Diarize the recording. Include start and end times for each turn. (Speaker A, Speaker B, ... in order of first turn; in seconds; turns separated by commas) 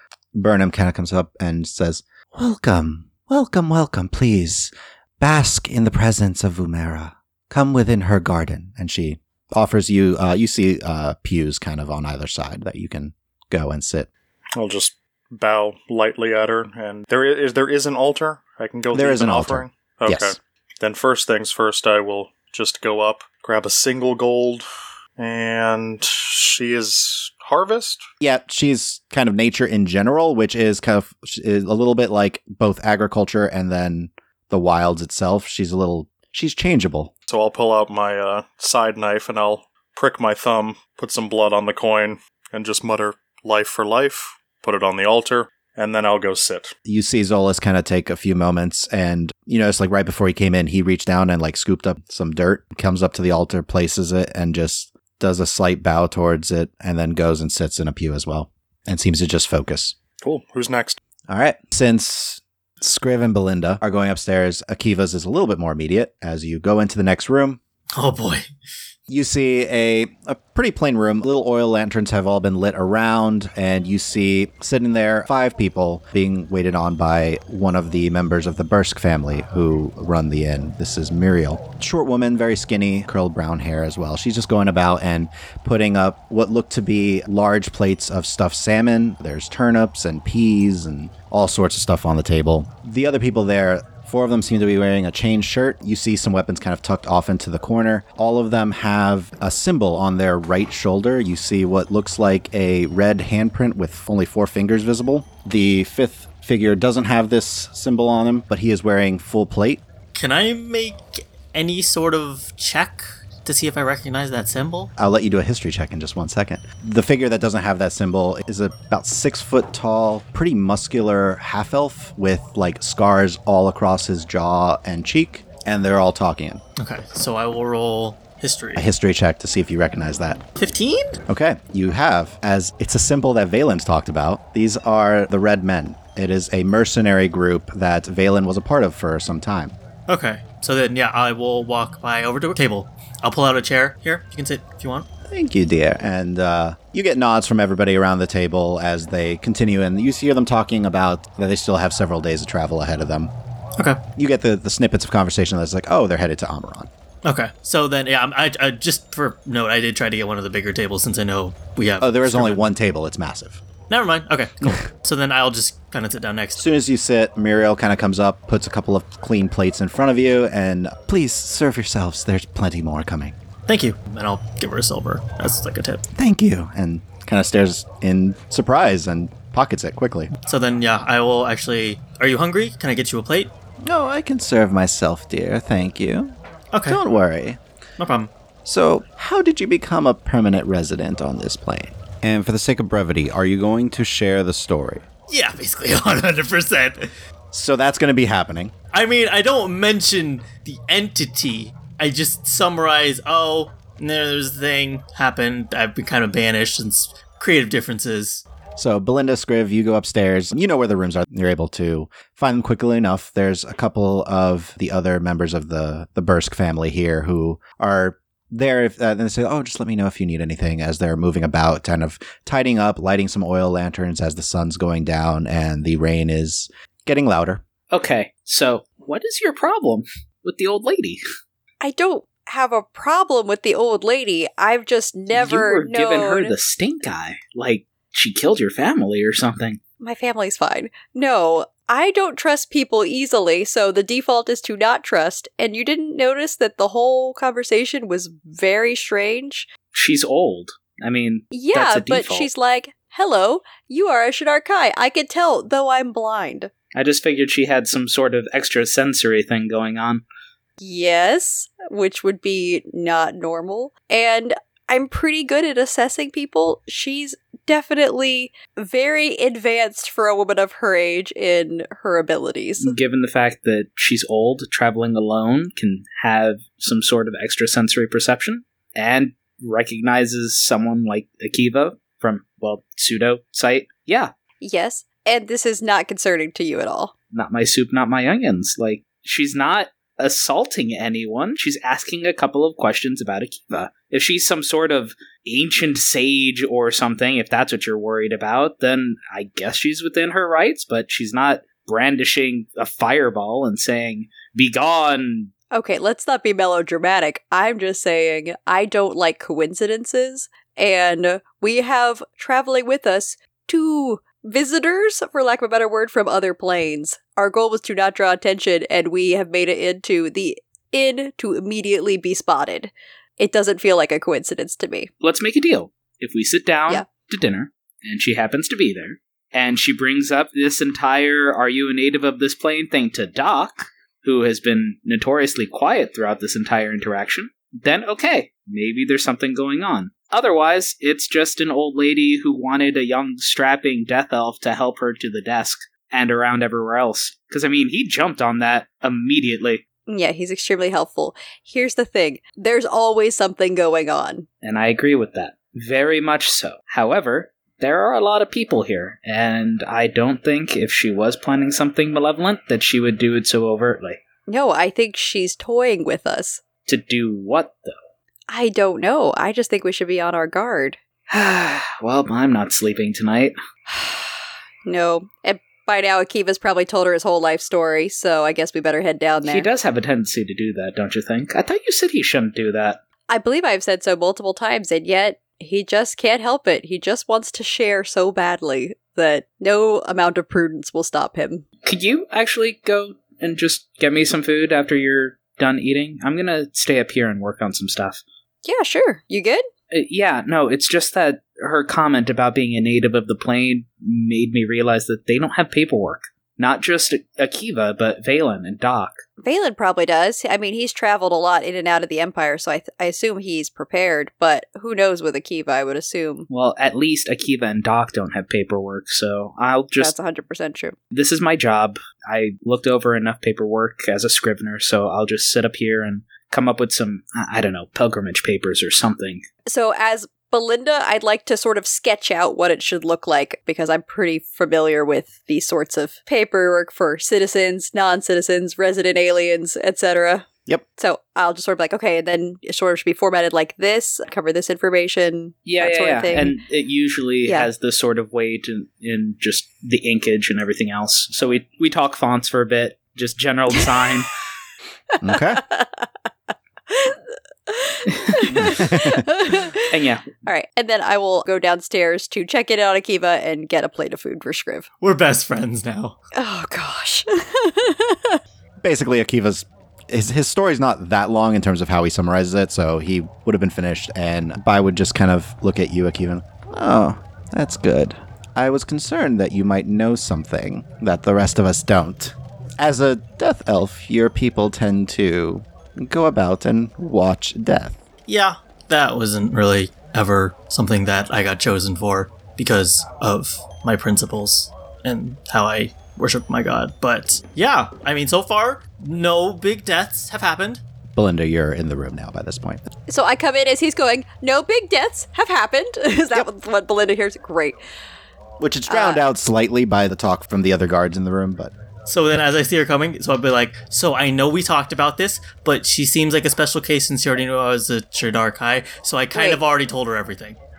Speaker A: 0.3-14.1, Speaker B: 14.6-24.6, Speaker A: 18.9-20.4, Speaker B: 25.2-28.0, Speaker A: 28.2-37.1, Speaker B: 37.3-46.7, Speaker A: 46.9-60.0, Speaker B: 60.2-61.0, Speaker A: 61.3-67.6, Speaker C: 67.9-68.5, Speaker A: 69.1-109.8, Speaker C: 110.1-114.9, Speaker A: 115.0-126.6, Speaker C: 126.8-128.8, Speaker A: 128.8-130.4, Speaker C: 130.6-131.2, Speaker A: 131.3-139.7, Speaker C: 140.1-145.1, Speaker A: 145.3-153.3, Speaker A: 154.2-156.9, Speaker C: 157.2-162.6, Speaker A: 162.0-163.6, Speaker C: 163.9-166.6, Speaker A: 166.6-173.3, Speaker C: 173.7-176.0, Speaker A: 176.1-180.3, Speaker C: 180.4-183.5, Speaker A: 183.8-186.3, Speaker C: 186.7-187.0, Speaker A: 186.9-187.6, Speaker C: 188.0-188.3, Speaker A: 188.7-195.0, Speaker C: 195.3-197.1, Speaker A: 197.5-198.7, Speaker C: 198.9-208.4, Speaker A: 208.8-227.6, Speaker D: 227.9-231.2, Speaker E: 231.8-236.5, Speaker D: 235.3-239.8, Speaker E: 240.0-249.7, Speaker D: 249.9-252.5, Speaker E: 251.5-256.7, Speaker D: 256.9-260.2, Speaker E: 260.8-273.0, Speaker D: 272.8-284.3, Speaker E: 284.6-287.1, Speaker D: 287.3-305.5, Speaker E: 305.7-325.1, Speaker D: 325.2-349.8, Speaker E: 350.1-354.5, Speaker D: 354.6-364.2, Speaker E: 364.5-366.6, Speaker D: 366.9-368.0, Speaker E: 368.5-371.0, Speaker D: 371.3-373.5, Speaker E: 373.9-374.3, Speaker E: 374.8-379.7, Speaker D: 379.4-383.0, Speaker E: 383.3-391.6, Speaker D: 391.8-398.2, Speaker E: 398.6-399.6, Speaker D: 399.9-409.2, Speaker E: 409.4-416.5, Speaker D: 416.5-420.1, Speaker E: 420.0-420.9, Speaker D: 421.1-429.4, Speaker E: 429.6-440.5, Speaker E: 441.0-446.6, Speaker D: 445.6-454.3, Speaker E: 455.1-456.1, Speaker A: 455.2-455.6, Speaker E: 456.9-464.9, Speaker D: 458.1-458.4, Speaker A: 458.5-459.2, Speaker D: 459.9-460.2, Speaker C: 465.0-466.1, Speaker E: 466.3-468.4, Speaker A: 468.8-488.0, Speaker C: 488.3-500.8, Speaker A: 501.1-502.9, Speaker E: 503.1-507.8, Speaker A: 508.6-511.7, Speaker E: 508.9-509.2, Speaker C: 512.1-520.6, Speaker E: 519.3-519.6